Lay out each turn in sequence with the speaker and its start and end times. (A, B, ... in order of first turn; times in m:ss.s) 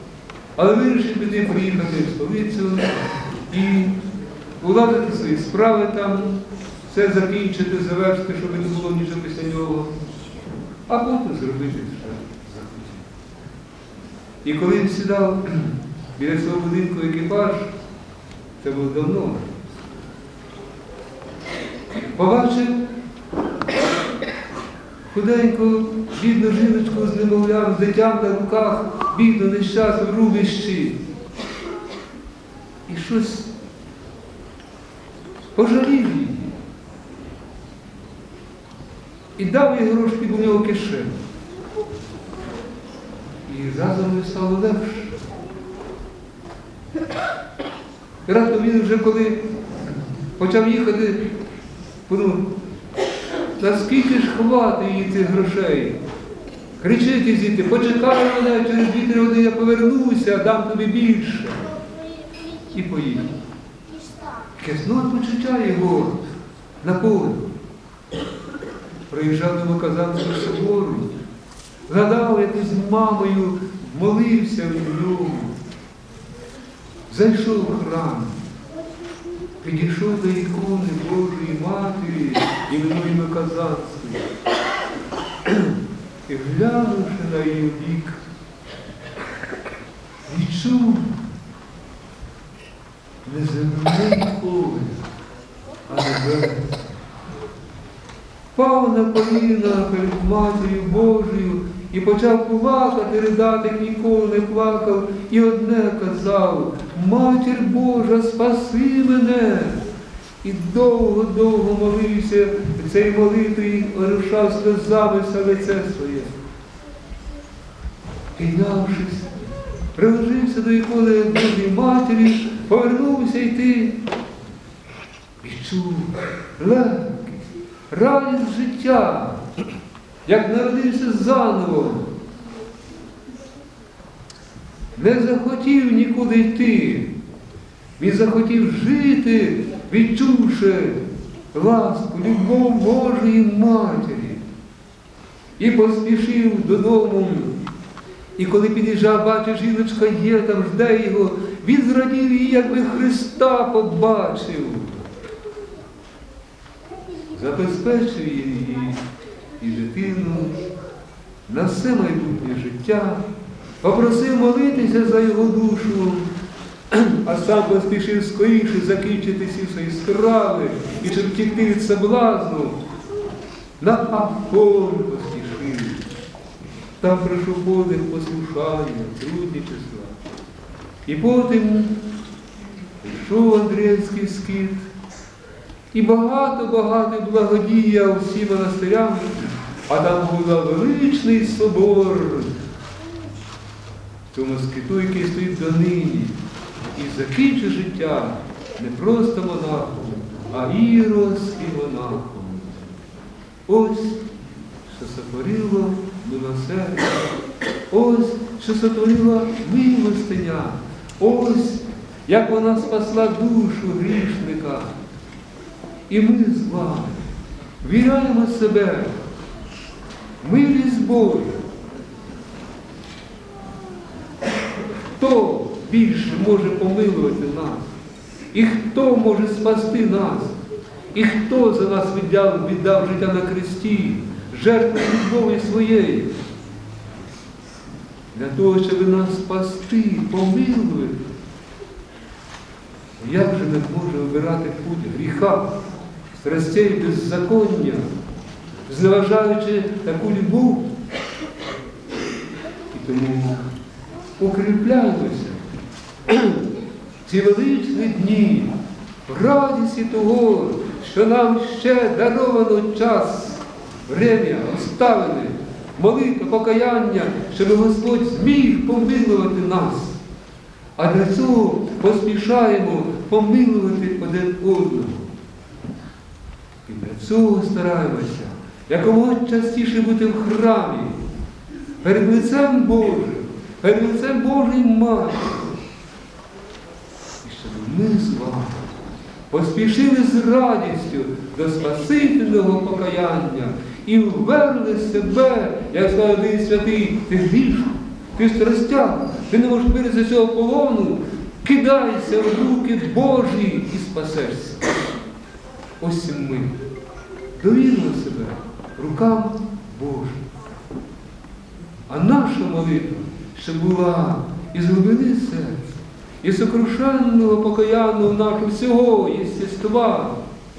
0:00.6-0:04.0 A
0:04.6-0:09.9 A
0:10.9-0:13.1 A
0:14.4-0:17.7 A
0:18.6-0:19.5 A
0:21.9-0:22.9 A
0:25.1-0:31.0 A
0:32.9-0:33.5 A
0:35.6-0:36.6 A
0:39.4-0:41.2 A
0:43.5-0:45.2 A
0:48.2-0:49.4 A
0:50.4-0:51.3 A
0:52.1-0:52.5 A
0:53.6-0:56.0 A
0:56.8-1:01.7 A
1:02.7-1:03.3 A
1:04.6-1:06.2 A
1:06.8-1:07.5 A
1:09.1-1:11.2 A
1:11.9-1:15.6 A
1:17.1-1:18.4 A
1:19.6-1:24.3 A
1:25.5-1:25.8 A
1:26.3-1:28.2 A
1:30.2-1:31.2 A
1:33.2-1:35.1 A
1:35.9-1:36.8 A
1:38.5-1:49.9 A
1:50.4-1:56.3 A
1:58.4-2:04.0 A
2:05.4-2:09.4 A
2:10.2-2:12.1 A
2:14.9-2:17.2 A
2:18.0-2:21.0 A
2:21.5-2:24.4 A
2:25.6-2:27.6 A
2:28.4-2:35.0 A
2:37.3-2:39.0 A
2:39.6-2:40.6 A
2:41.5-2:43.2 A
2:43.8-2:46.3 A
2:46.9-2:52.8 A
2:53.8-2:56.1 A
2:57.0-3:00.2 A
3:01.1-3:02.0 A
3:03.0-3:04.9 A
3:05.9-3:12.6 A
3:14.3-3:16.4 A
3:17.0-3:22.9 A
3:23.7-3:24.3 A
3:24.9-3:27.3 A
3:27.9-3:35.0 A
3:36.1-3:37.2 A
3:37.8-3:39.2 A
3:40.4-3:41.6 A
3:45.2-3:47.9 A
3:48.5-3:50.6 A
3:51.1-3:56.3 A
3:58.3-4:01.2 A
4:03.2-4:05.7 A
4:06.4-4:08.1 A
4:08.9-4:10.9 A
4:12.9-4:13.6 A
4:14.4-4:15.7 A
4:16.3-4:16.6 A
4:17.2-4:30.2 A
4:31.0-4:35.3 A
4:36.9-4:41.2 A
4:42.0-4:45.6 A
4:47.4-4:48.8 A
4:49.5-5:05.0 A
5:06.0-5:06.8 A
5:07.6-5:10.5 A
5:12.1-5:20.4 A